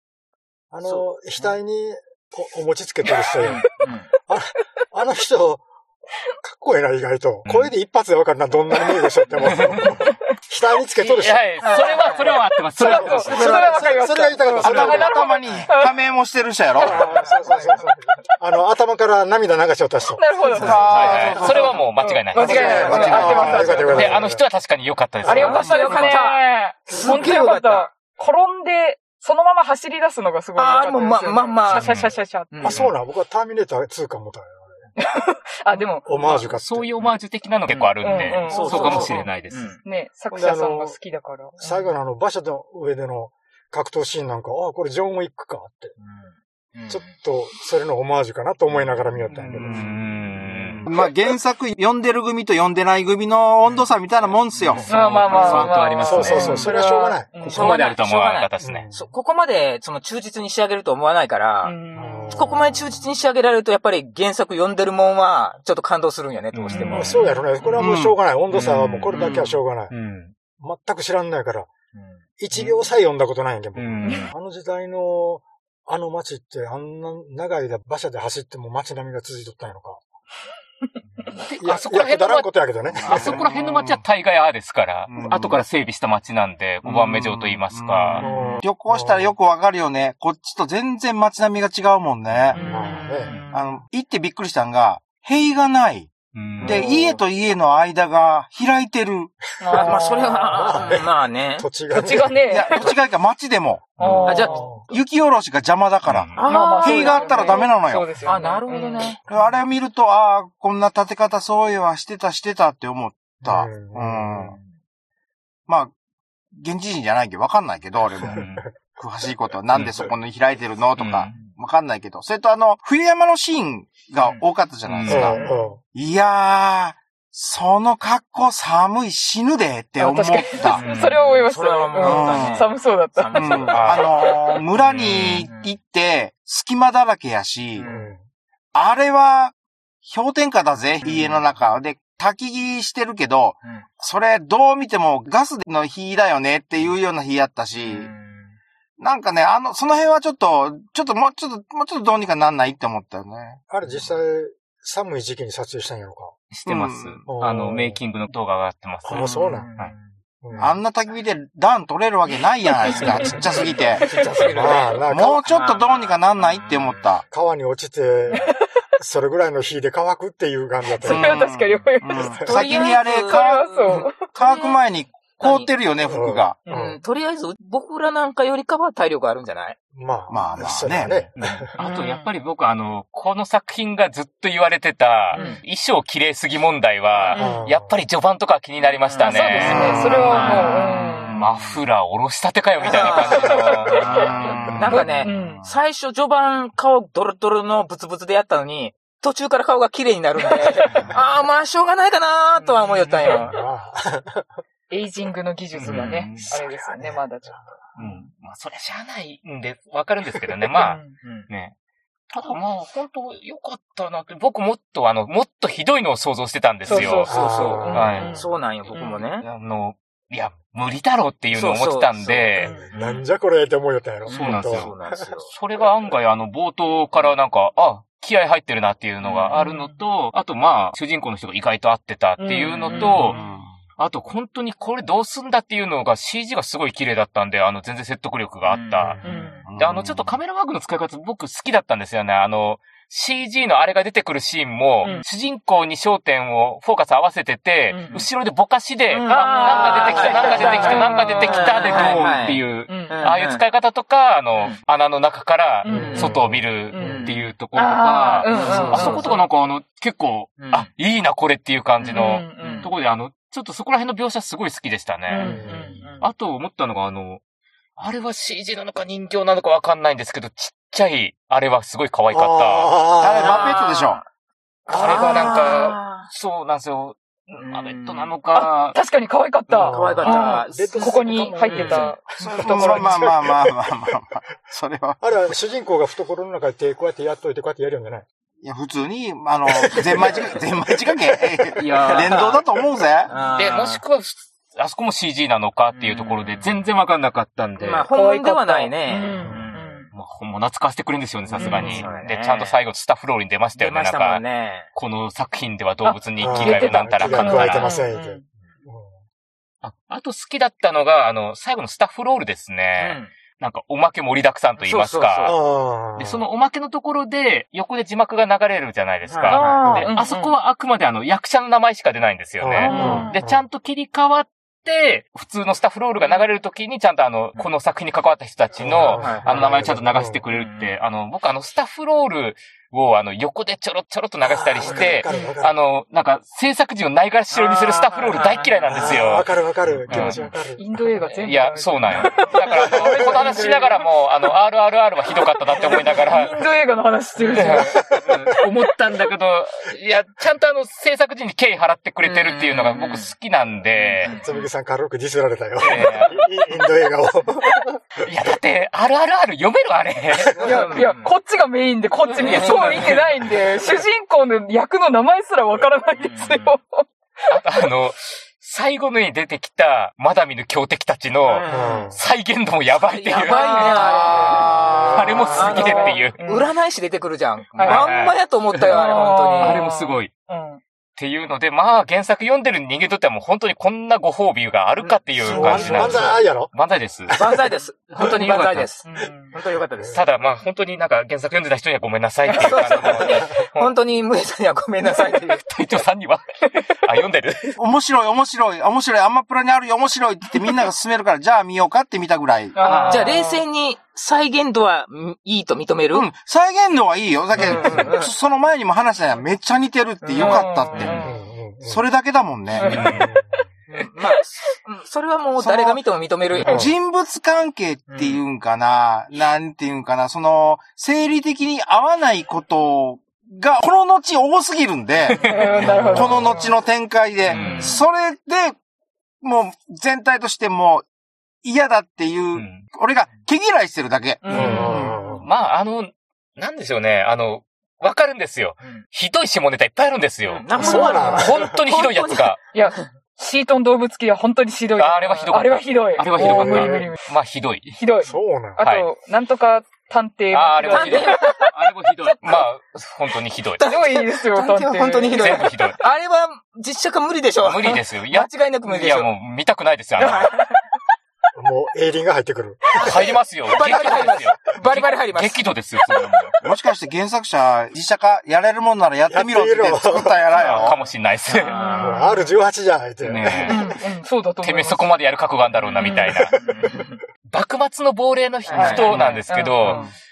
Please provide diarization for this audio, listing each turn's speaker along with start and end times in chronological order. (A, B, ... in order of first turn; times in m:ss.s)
0:00.7-0:03.6 A
0:00.8-0:01.5 B
0:03.4-0:04.1 B
0:04.3-0:05.6 A
0:06.4-0:11.6 A
0:07.4-0:07.7 C
0:09.4-0:10.0 C
0:11.0-0:13.6 C
0:11.6-0:12.3 B
0:12.8-0:15.9 D
0:12.8-0:15.2 A
0:13.2-0:13.8 B
0:14.6-0:17.1 E
0:16.8-0:21.5 A
0:17.0-0:17.8 B
0:20.1-0:24.1 D
0:20.5-0:21.8 E
0:20.6-0:26.2 C
0:22.4-0:23.9 E
0:22.4-0:24.4 A
0:22.7-0:23.2 B
0:25.2-0:32.7 D
0:25.3-0:25.5 A
0:25.3-0:27.9 B
0:30.6-0:32.9 B
0:31.7-0:32.1 C
0:32.6-0:34.7 A
0:35.0-0:36.4 D
0:36.0-0:36.9 A
0:36.4-0:39.7 C
0:37.7-0:39.8 B
0:38.0-0:39.3 D
0:38.7-0:39.1 A
0:39.8-0:41.9 D
0:40.3-0:41.0 A
0:41.6-0:45.9 A
0:46.0-0:47.2 B
0:46.9-0:49.9 A
0:49.3-0:50.8 C
0:50.8-0:54.9 E
0:54.8-0:56.7 C
0:54.8-0:57.8 D
0:56.0-0:57.3 A
0:56.3-0:56.6 B
0:57.4-0:58.9 C
0:57.4-1:01.7 B
0:58.6-0:59.1 A
1:01.6-1:02.5 D
1:01.9-1:03.0 A
1:02.3-1:07.2 B
1:06.5-1:07.2 C
1:06.7-1:07.5 D
1:06.9-1:09.9 A
1:07.8-1:08.2 E
1:08.5-1:10.3 C
1:09.1-1:09.4 B
1:10.6-1:11.7 A
1:11.9-1:12.7 B
1:12.4-1:20.0 A
1:13.8-1:14.3 C
1:14.0-1:14.3 D
1:21.4-1:28.3 C
1:21.6-1:23.4 A
1:23.0-1:24.0 E
1:25.1-1:25.6 E
1:26.8-1:32.6 E
1:28.2-1:29.3 A
1:32.5-1:33.5 D
1:32.6-1:33.4 A
1:33.2-1:33.6 B
1:33.5-1:39.4 E
1:36.3-1:36.9 C
1:36.6-1:37.0 A
1:39.6-1:40.8 D
1:39.7-1:41.7 B
1:40.5-1:42.4 A
1:41.9-1:42.9 D
1:42.5-1:48.2 E
1:44.0-1:44.4 C
1:44.0-1:44.8 D
1:44.2-1:44.6 B
1:44.4-1:44.8 A
1:46.0-1:46.4 C
1:46.3-1:47.7 B
1:46.4-1:49.2 D
1:48.2-1:49.2 B
1:49.3-1:54.6 E
1:53.4-1:54.5 A
1:55.7-1:55.9 E
1:56.5-2:10.8 E
1:58.2-1:58.6 C
1:59.7-2:00.0 C
2:01.0-2:01.3 C
2:04.8-2:05.3 C
2:05.1-2:05.8 A
2:05.4-2:05.7 D
2:10.0-2:14.6 D
2:10.6-2:14.0 B
2:10.6-2:11.2 C
2:12.0-2:12.7 E
2:13.3-2:17.9 E
2:13.7-2:14.1 C
2:14.7-2:15.5 C
2:15.4-2:15.8 B
2:17.8-2:18.1 B
2:17.8-2:18.2 A
2:18.7-2:28.1 E
2:21.0-2:21.4 B
2:27.8-2:28.6 B
2:29.0-2:33.6 E
2:33.7-2:36.3 A
2:36.5-2:39.9 C
2:36.7-2:37.2 E
2:37.3-2:38.0 A
2:39.0-2:39.7 A
2:39.1-2:40.1 B
2:40.4-2:40.8 A
2:40.6-2:44.1 E
2:42.9-2:43.4 D
2:43.0-2:47.0 B
2:44.0-2:44.4 D
2:44.5-2:45.4 A
2:45.1-2:47.2 E
2:47.3-2:51.4 A
2:48.3-2:48.6 D
2:51.0-2:54.3 D
2:51.0-2:56.6 E
2:52.4-2:54.8 B
2:55.3-2:55.7 B
2:56.0-2:57.0 A
2:56.7-2:59.8 B
2:59.9-3:01.7 A
3:00.3-3:01.2 E
3:01.4-3:15.0 C
3:01.8-3:02.3 D
3:05.3-3:05.6 B
3:05.3-3:05.6 D
3:07.3-3:07.7 D
3:07.4-3:07.9 A
3:09.1-3:11.4 B
3:09.2-3:11.4 D
3:09.6-3:11.7 E
3:12.8-3:23.5 B
3:13.0-3:14.3 D
3:14.0-3:15.3 E
3:14.9-3:15.6 D
3:22.6-3:23.4 D
3:23.2-3:24.4 A
3:24.9-3:27.7 D
3:25.7-3:26.5 C
3:25.8-3:26.1 B
3:26.4-3:27.6 A
3:28.0-3:31.7 C
3:30.7-3:31.2 D
3:31.2-3:31.5 B
3:32.3-3:37.3 C
3:36.8-3:39.2 D
3:36.9-3:39.4 B
3:37.3-3:38.2 A
3:37.9-3:38.4 C
3:39.3-3:42.7 C
3:41.5-3:43.2 B
3:42.6-3:45.3 A
3:42.6-3:42.9 D
3:44.2-3:45.5 B
3:44.3-3:44.9 C
3:45.5-3:53.4 C
3:49.2-3:49.6 B
3:49.5-3:50.0 D
3:52.4-3:53.4 D
3:52.9-3:53.5 B
3:54.0-3:59.2 C
3:58.6-3:59.6 B
3:59.2-3:59.6 D
3:59.6-4:00.4 E
3:59.7-4:25.5 C
4:07.9-4:08.2 D
4:09.1-4:13.6 B
4:09.3-4:12.3 D
4:12.9-4:13.2 D
4:15.8-4:16.3 D
4:15.9-4:16.4 B
4:15.9-4:16.7 A
4:16.9-4:19.4 D
4:16.9-4:17.4 B
4:18.2-4:19.4 B
4:20.6-4:20.9 B
4:22.0-4:22.9 B
4:22.1-4:22.9 D
4:25.3-4:26.3 D
4:25.4-4:26.0 B
4:25.4-4:26.0 A
4:26.2-4:27.4 C
4:28.0-4:33.0 C
4:32.3-4:33.7 A
4:33.1-4:34.2 E
4:33.4-4:34.2 B
4:34.9-4:39.0 C
4:34.9-4:36.3 B
4:35.0-4:35.5 D
4:37.6-4:38.3 B
4:38.5-4:43.3 D
4:39.8-4:43.8 A
4:39.8-4:42.1 B
4:42.4-4:45.3 E
4:45.2-4:48.2 A
4:48.6-4:53.3 E
4:49.7-4:50.4 A
4:51.0-4:51.8 A
4:51.8-4:52.5 C
4:52.0-4:52.6 B
4:53.3-4:54.0 B
4:53.5-4:58.1 C
4:55.9-4:56.8 B
4:57.8-5:00.1 B
4:58.1-5:00.1 D
4:59.4-4:59.7 A
5:00.1-5:04.4 C
5:01.5-5:02.8 B
5:01.6-5:02.1 D
5:03.8-5:04.9 B
5:04.9-5:07.9 C
5:06.0-5:08.4 D
5:06.4-5:09.1 A
5:09.8-5:15.6 C
5:13.0-5:13.3 B
5:14.8-5:15.6 B
5:15.4-5:16.4 A
5:16.2-5:39.5 C
5:19.3-5:20.1 B
5:19.5-5:20.5 D
5:19.5-5:20.1 A
5:22.6-5:23.6 A
5:22.8-5:23.3 D
5:22.8-5:23.3 B
5:28.8-5:30.4 A
5:29.0-5:29.8 B
5:30.5-5:31.0 B
5:34.4-5:35.7 A
5:35.3-5:35.6 D
5:37.5-5:39.2 B
5:38.9-5:40.8 A
5:40.0-5:40.4 C
5:40.1-5:40.4 B
5:40.8-5:44.1 D
5:41.3-5:46.6 C
5:43.0-5:43.3 A
5:45.7-5:48.1 D
5:47.4-5:47.7 B
5:47.5-5:54.4 C
5:47.9-5:48.6 A
5:52.2-5:53.3 B
5:53.9-5:54.6 B
5:54.4-5:58.0 A
5:55.8-5:56.4 C
5:58.2-6:00.7 C
6:00.5-6:07.6 D
6:00.6-6:01.3 B
6:02.3-6:03.4 C
6:02.4-6:03.1 B
6:06.2-6:06.8 B
6:07.5-6:16.4 C
6:11.4-6:12.1 B
6:11.7-6:12.2 A
6:12.9-6:19.8 B
6:13.5-6:14.6 D
6:14.5-6:15.4 E
6:14.8-6:15.8 A
6:15.5-6:16.7 D
6:17.8-6:18.1 D
6:17.8-6:19.0 C
6:18.8-6:20.8 D
6:19.6-6:20.3 C
6:21.2-6:27.6 C
6:25.0-6:26.4 B
6:25.5-6:26.7 A
6:25.5-6:26.0 D
6:27.3-6:30.2 B
6:28.1-6:28.9 C
6:29.0-6:29.5 D
6:30.1-6:34.0 C
6:32.5-6:35.6 B
6:35.5-6:37.8 C
6:37.8-6:42.8 E
6:42.7-6:43.6 D
6:42.8-6:43.3 C
6:42.8-6:46.3 B
6:46.1-6:51.2 E
6:47.6-6:48.3 B
6:50.2-6:51.2 B
6:50.3-6:51.4 D
6:51.2-6:52.0 A
6:51.8-6:53.1 E
6:52.8-6:53.3 C
6:52.8-6:53.3 D
6:53.0-6:53.6 A
6:53.9-6:56.9 B
6:55.6-6:56.0 E
6:56.6-7:08.8 E
6:56.6-6:57.0 A
6:58.1-6:58.4 B
7:05.3-7:06.7 D
7:05.4-7:06.3 C
7:05.9-7:06.5 A
7:07.5-7:08.0 B
7:07.5-7:08.0 C
7:07.6-7:08.0 D
7:09.4-7:11.0 E
7:11.6-7:15.0 E
7:12.5-7:12.8 C
7:14.4-7:15.4 D
7:14.5-7:22.6 C
7:14.5-7:15.4 A
7:20.4-7:23.0 B
7:20.8-7:21.5 D
7:20.8-7:21.7 A
7:22.7-7:27.2 D
7:25.0-7:28.0 C
7:26.4-7:27.1 A
7:28.0-7:31.7 D
7:28.2-7:28.8 A
7:28.8-7:29.1 C
7:30.5-7:33.8 C
7:30.9-7:31.7 B
7:32.2-7:32.6 D
7:33.8-7:39.3 B
7:33.8-7:35.6 D
7:35.3-7:36.0 C
7:37.6-7:40.5 C
7:40.2-7:40.7 B
7:41.6-7:43.1 A
7:43.0-7:46.6 C
7:43.6-7:45.7 B
7:46.6-7:51.0 E
7:49.3-7:50.7 A
7:50.5-7:52.0 C
7:51.5-7:52.4 B
7:51.6-7:52.5 D
7:52.0-7:53.8 A
7:53.2-7:53.9 C
7:53.6-7:55.1 D
7:54.6-7:56.5 C
7:55.8-7:57.2 B
7:56.0-7:56.3 D
7:56.4-7:56.8 A
7:57.5-8:00.1 C
7:58.6-8:00.1 B
7:58.7-8:00.1 D